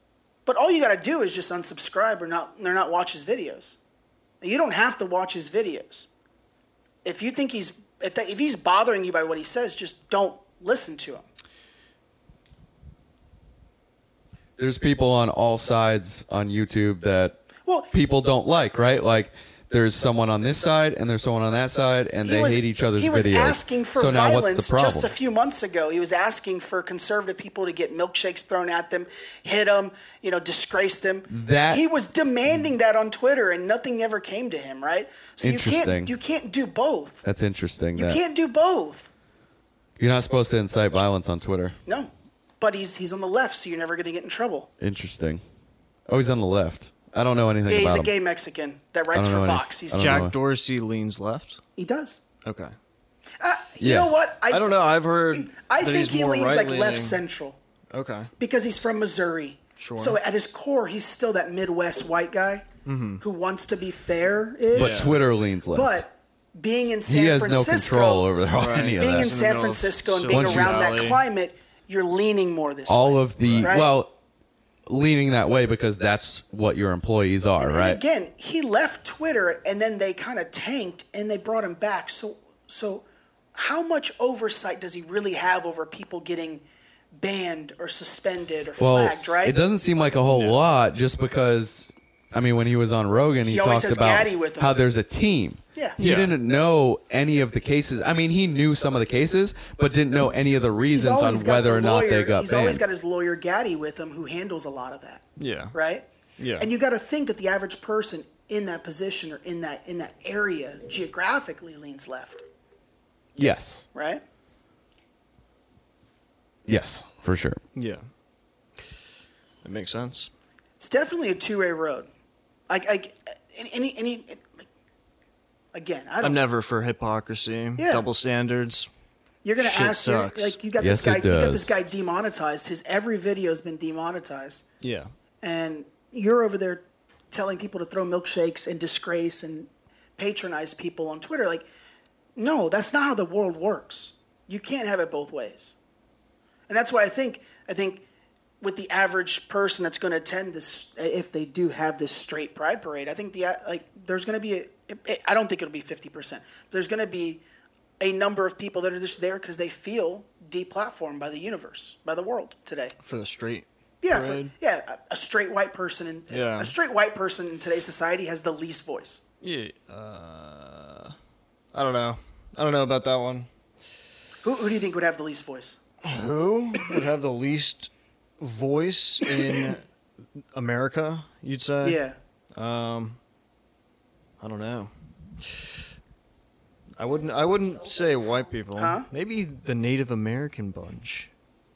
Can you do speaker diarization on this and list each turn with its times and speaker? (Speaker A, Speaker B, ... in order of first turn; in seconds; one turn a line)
Speaker A: 0.5-3.8
Speaker A: 4.4-6.1
Speaker A: 7.0-11.3
Speaker B: 14.6-17.4
Speaker A: 17.7-17.9
Speaker B: 17.9-25.1
Speaker A: 22.2-37.2
Speaker B: 31.3-31.8
Speaker B: 35.4-36.1
Speaker B: 37.2-38.2
Speaker A: 38.0-39.1
Speaker B: 40.0-41.8
Speaker A: 41.9-44.7
Speaker B: 44.8-45.4
Speaker B: 46.1-48.1
Speaker A: 47.7-50.3
Speaker B: 49.1-50.3
Speaker C: 49.9-51.6
Speaker A: 51.8-52.2
Speaker C: 52.5-52.7
Speaker A: 53.4-54.8
Speaker B: 53.8-54.2
Speaker C: 54.5-57.2
Speaker A: 55.3-57.6
Speaker C: 57.9-58.3
Speaker A: 58.4-62.7
Speaker C: 59.8-60.2
Speaker C: 62.9-63.2
Speaker A: 63.2-65.1
Speaker B: 64.7-66.0
Speaker C: 64.7-65.2
Speaker A: 65.7-68.3
Speaker B: 67.1-69.3
Speaker C: 68.6-71.2
Speaker A: 69.0-73.9
Speaker B: 70.3-70.8
Speaker B: 72.9-74.1
Speaker C: 73.4-73.8
Speaker B: 74.9-78.0
Speaker A: 77.6-86.7
Speaker A: 87.2-89.6
Speaker B: 88.8-102.8
Speaker C: 90.3-90.6
Speaker A: 93.5-94.8
Speaker C: 96.0-96.3
Speaker A: 100.9-105.2
Speaker C: 105.4-105.8
Speaker A: 105.7-106.0
Speaker C: 106.4-106.7
Speaker A: 106.6-112.4
Speaker B: 113.4-113.9
Speaker A: 113.9-114.2
Speaker B: 116.7-117.6
Speaker C: 117.8-118.0
Speaker C: 119.6-120.3
Speaker A: 120.8-122.1
Speaker A: 122.7-124.6
Speaker A: 125.7-126.4
Speaker C: 126.2-128.9
Speaker A: 127.8-128.1
Speaker A: 129.4-134.7
Speaker C: 129.6-130.6
Speaker B: 130.8-131.8
Speaker C: 134.8-135.1
Speaker A: 135.4-141.7
Speaker A: 142.4-145.8
Speaker A: 146.7-148.0
Speaker A: 148.6-157.4
Speaker A: 158.0-162.9
Speaker C: 163.0-164.5
Speaker A: 164.0-169.2
Speaker C: 166.3-166.7
Speaker C: 169.4-171.2
Speaker C: 171.7-173.5
Speaker A: 174.4-175.8
Speaker C: 176.0-179.8
Speaker C: 180.5-182.0
Speaker A: 181.8-182.2
Speaker C: 182.6-183.2
Speaker C: 184.4-184.9
Speaker C: 187.0-191.3
Speaker A: 188.8-189.0